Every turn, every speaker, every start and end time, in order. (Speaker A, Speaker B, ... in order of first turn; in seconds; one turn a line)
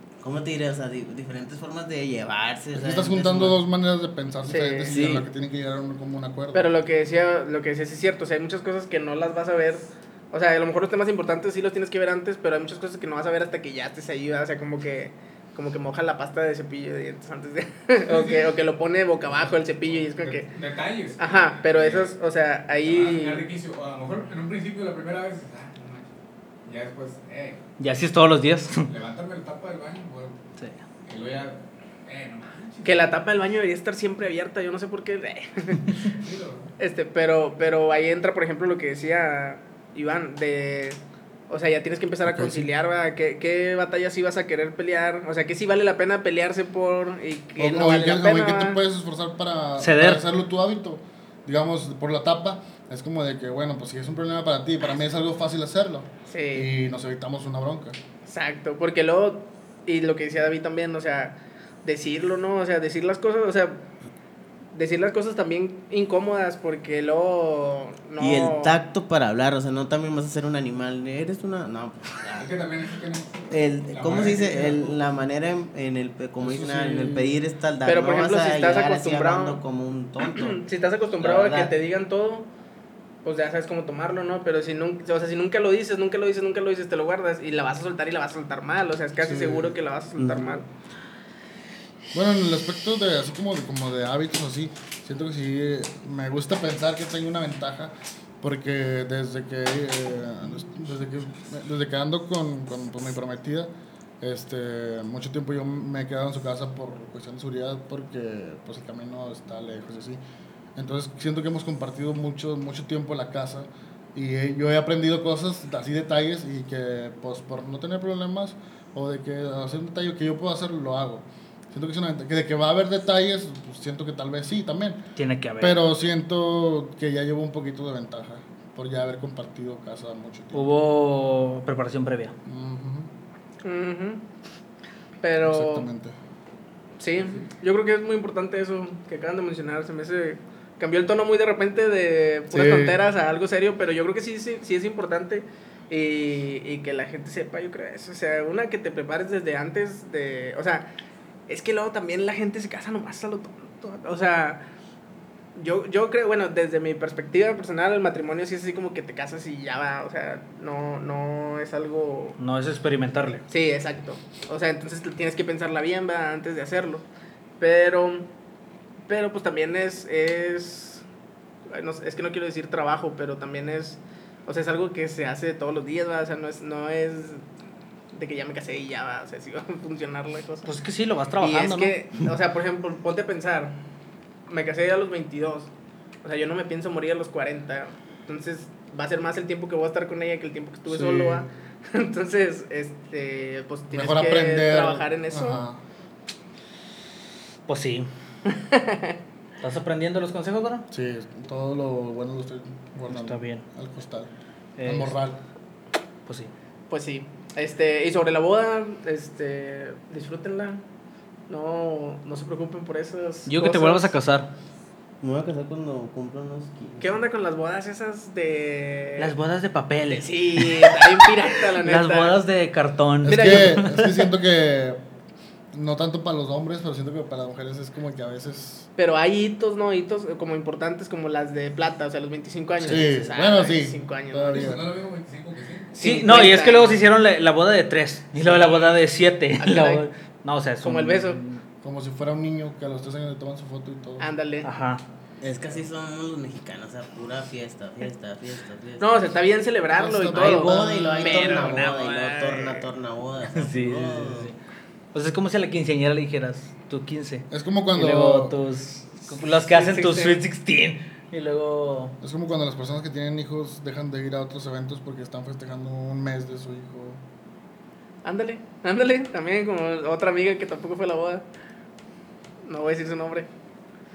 Speaker A: 0.2-3.6
Speaker B: 2.7-6.7
Speaker C: 4.5-5.1
Speaker A: 4.9-5.2
Speaker C: 6.5-20.5
Speaker D: 18.1-18.5
Speaker D: 19.3-22.1
Speaker C: 21.2-23.5
Speaker D: 22.8-27.6
Speaker E: 27.8-28.9
Speaker D: 28.9-30.4
Speaker D: 31.0-33.1
Speaker C: 32.8-36.0
Speaker D: 36.0-36.7
Speaker C: 36.8-48.8
Speaker B: 42.2-42.7
Speaker B: 47.6-58.0
Speaker E: 49.8-50.2
Speaker C: 56.3-56.7
Speaker C: 58.3-63.8
Speaker C: 64.7-68.8
Speaker A: 68.2-72.5
Speaker D: 72.3-75.0
Speaker A: 73.5-80.6
Speaker B: 76.4-77.4
Speaker C: 77.8-79.6
Speaker C: 80.2-82.5
Speaker A: 81.2-81.7
Speaker C: 83.2-90.7
Speaker B: 89.2-89.7
Speaker A: 90.2-90.6
Speaker B: 92.1-103.7
Speaker B: 104.2-110.2
Speaker B: 110.8-125.0
Speaker E: 125.2-125.8
Speaker B: 125.6-130.7
Speaker E: 130.5-132.3
Speaker B: 132.4-133.1
Speaker C: 133.6-134.2
Speaker C: 135.2-135.9
Speaker B: 135.4-136.2
Speaker C: 137.0-150.9
Speaker D: 137.2-137.5
Speaker B: 142.5-143.0
Speaker C: 151.5-154.6
Speaker C: 155.6-162.4
Speaker E: 162.4-163.4
Speaker C: 163.5-167.0
Speaker C: 167.6-168.3
Speaker C: 169.1-171.0
Speaker C: 171.7-177.4
Speaker C: 178.1-180.7
Speaker E: 180.7-181.9
Speaker C: 181.4-183.7
Speaker C: 184.5-185.7
Speaker C: 186.2-195.6
Speaker B: 190.9-191.5
Speaker B: 193.9-195.8
Speaker E: 197.7-198.1
Speaker C: 198.5-199.2
Speaker E: 199.6-200.9
Speaker B: 200.9-204.3
Speaker E: 203.1-203.6
Speaker E: 204.8-205.2
Speaker B: 204.8-205.4
Speaker E: 206.2-206.5
Speaker C: 206.9-210.8
Speaker C: 211.5-214.1
Speaker E: 213.5-214.5
Speaker A: 215.2-217.2
Speaker C: 217.0-219.3
Speaker E: 219.2-224.3
Speaker C: 220.1-222.4
Speaker B: 223.2-225.0
Speaker C: 223.2-223.8
Speaker B: 225.7-228.9
Speaker C: 229.0-234.7
Speaker B: 232.8-234.9
Speaker D: 234.5-236.0
Speaker C: 235.9-237.0
Speaker E: 236.0-241.6
Speaker C: 239.6-240.0
Speaker C: 240.8-241.4
Speaker B: 241.8-244.2
Speaker C: 244.2-244.7
Speaker E: 244.6-245.0
Speaker A: 245.4-249.3
Speaker C: 249.0-252.9
Speaker B: 250.0-251.7
Speaker A: 250.3-254.5
Speaker E: 253.5-254.6
Speaker E: 255.1-262.1
Speaker B: 257.5-258.5
Speaker C: 259.7-260.4
Speaker B: 262.2-267.2
Speaker C: 268.2-271.4
Speaker C: 272.6-273.5